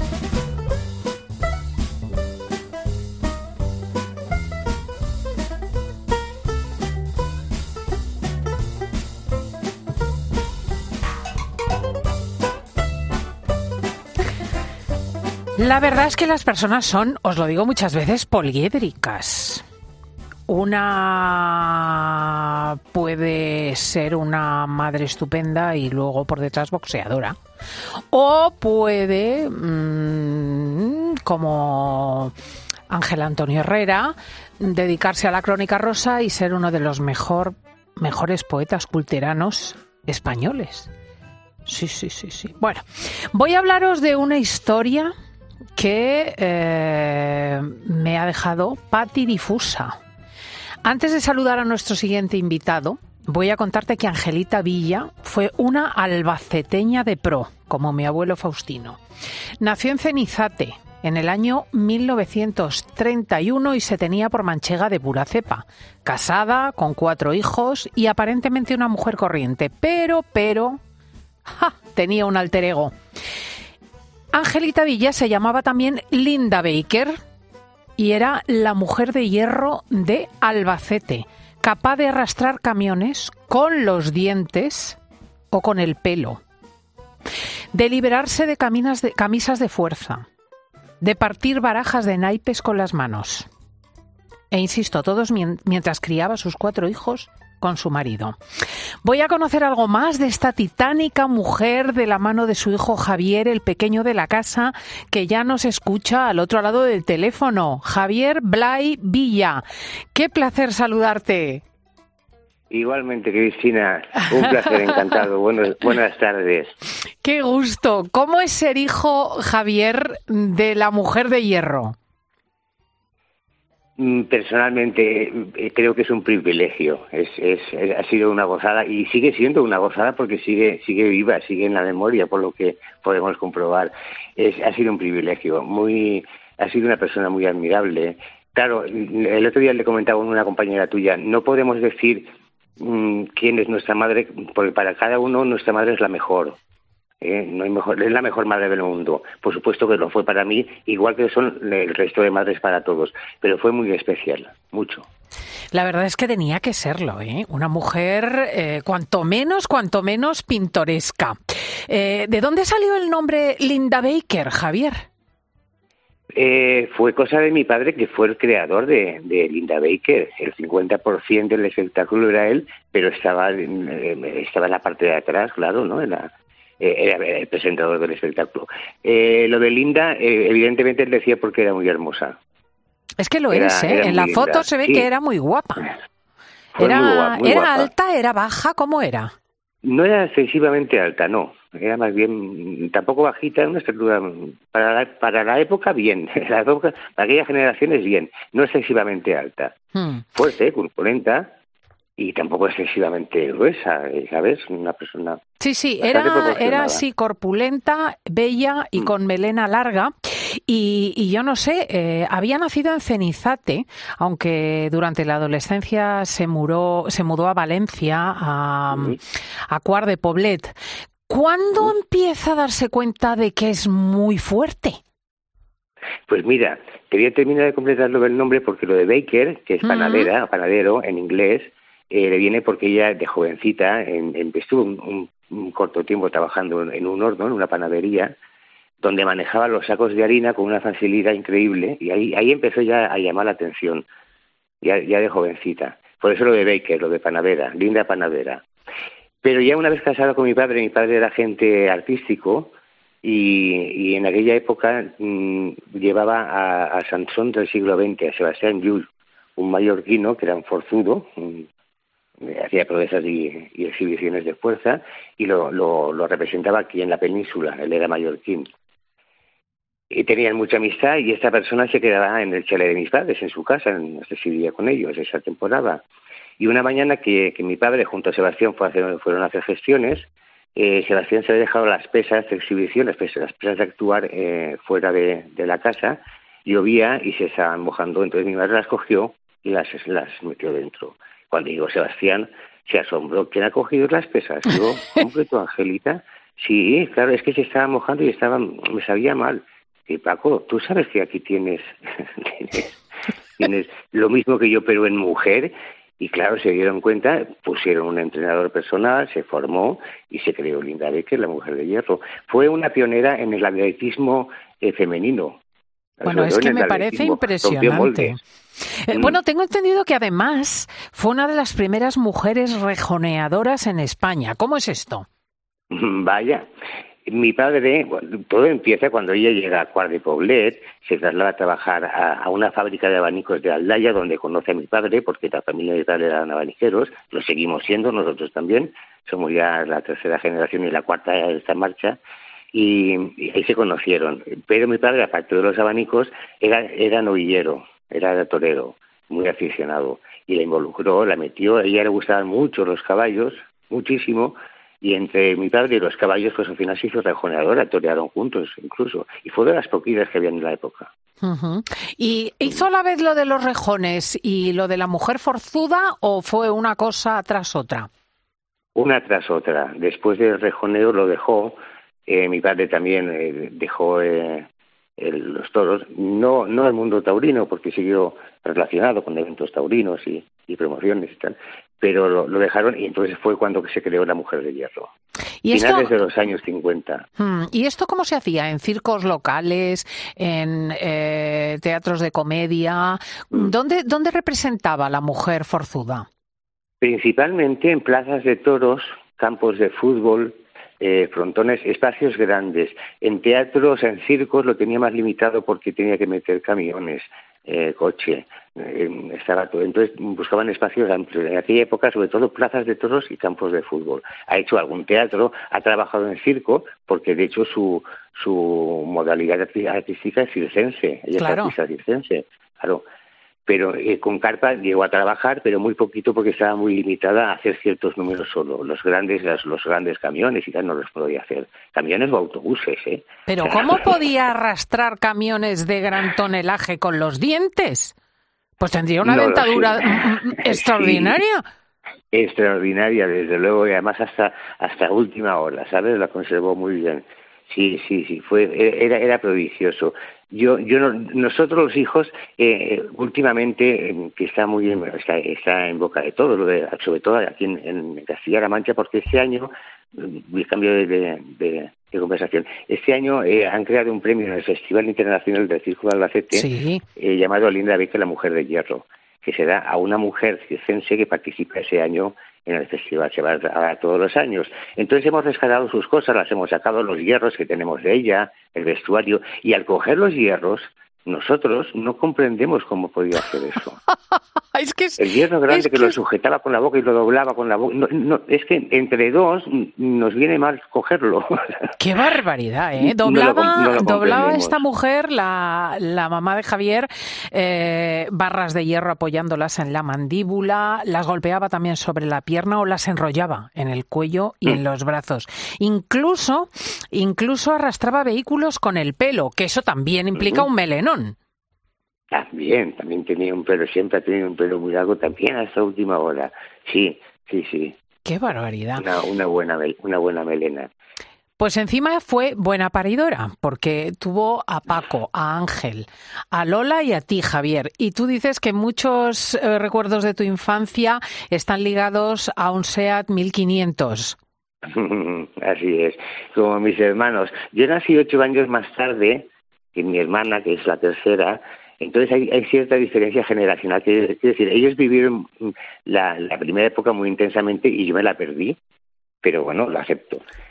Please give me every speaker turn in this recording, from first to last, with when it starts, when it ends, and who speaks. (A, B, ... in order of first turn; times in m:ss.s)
0:15.6-0:19.6 A
0:20.5-0:27.4 A
0:28.1-0:32.3 A
0:32.9-0:40.9 A
0:41.6-0:45.1 A
0:45.8-0:50.0 A
0:50.8-0:59.0 A
0:59.6-1:10.8 A
1:11.5-1:12.9 A
1:14.3-1:17.2 A
1:18.0-1:25.0 A
1:25.5-1:26.4 A
1:27.7-1:30.2 A
1:31.0-1:33.5 A
1:34.5-1:38.4 A
1:39.0-1:51.6 A
1:52.7-1:56.7 B
1:57.2-2:02.0 A
2:04.0-2:26.6 B
2:27.2-2:35.1 B
2:35.7-2:45.0 A
2:46.4-3:02.4 B
3:03.2-3:05.9 A
3:03.5-3:05.1 B
3:06.7-3:07.9 B
3:06.8-3:09.3 A
3:09.8-3:19.7 B
3:19.9-3:20.2 A
3:20.3-3:21.5 B
3:22.2-3:25.4 B
3:25.6-3:40.7 A
3:26.0-3:27.0 B
3:38.9-3:39.2 B
3:41.3-3:45.0 A
3:46.3-3:58.3 B
3:49.8-3:50.3 A
3:59.0-4:04.0 B
4:04.8-4:08.6 B
4:09.4-4:21.7 B
4:22.4-4:28.7 B
4:30.1-4:36.0 B
4:36.6-5:02.9 B
5:03.6-5:15.6 B
5:16.2-5:18.4 B
5:16.2-5:25.3 A
5:19.1-5:19.4 B
5:25.9-5:26.6 B
5:27.2-5:42.2 B
5:42.7-6:01.1 B
6:01.4-6:08.1 A
6:08.9-6:14.7 B
6:15.2-6:25.1 B
6:25.6-6:26.2 A
6:25.7-6:27.2 B
6:27.4-6:36.2 A
6:37.0-7:03.0 B
7:01.3-7:01.7 A
7:03.7-7:14.1 B
7:13.4-7:18.2 A
7:18.8-7:21.6 A
7:19.2-7:21.4 B
7:22.3-8:04.0 B
7:46.5-7:47.0 A
8:04.7-8:06.2 A
8:05.2-8:11.5 B
8:12.0-8:31.4 A
8:13.0-8:14.8 B
8:30.4-8:30.7 B
8:32.3-8:38.0 B
8:38.2-8:39.1 A
8:39.0-8:40.9 B
8:41.6-8:54.4 A
8:54.9-9:08.8 B
9:09.4-9:10.4 B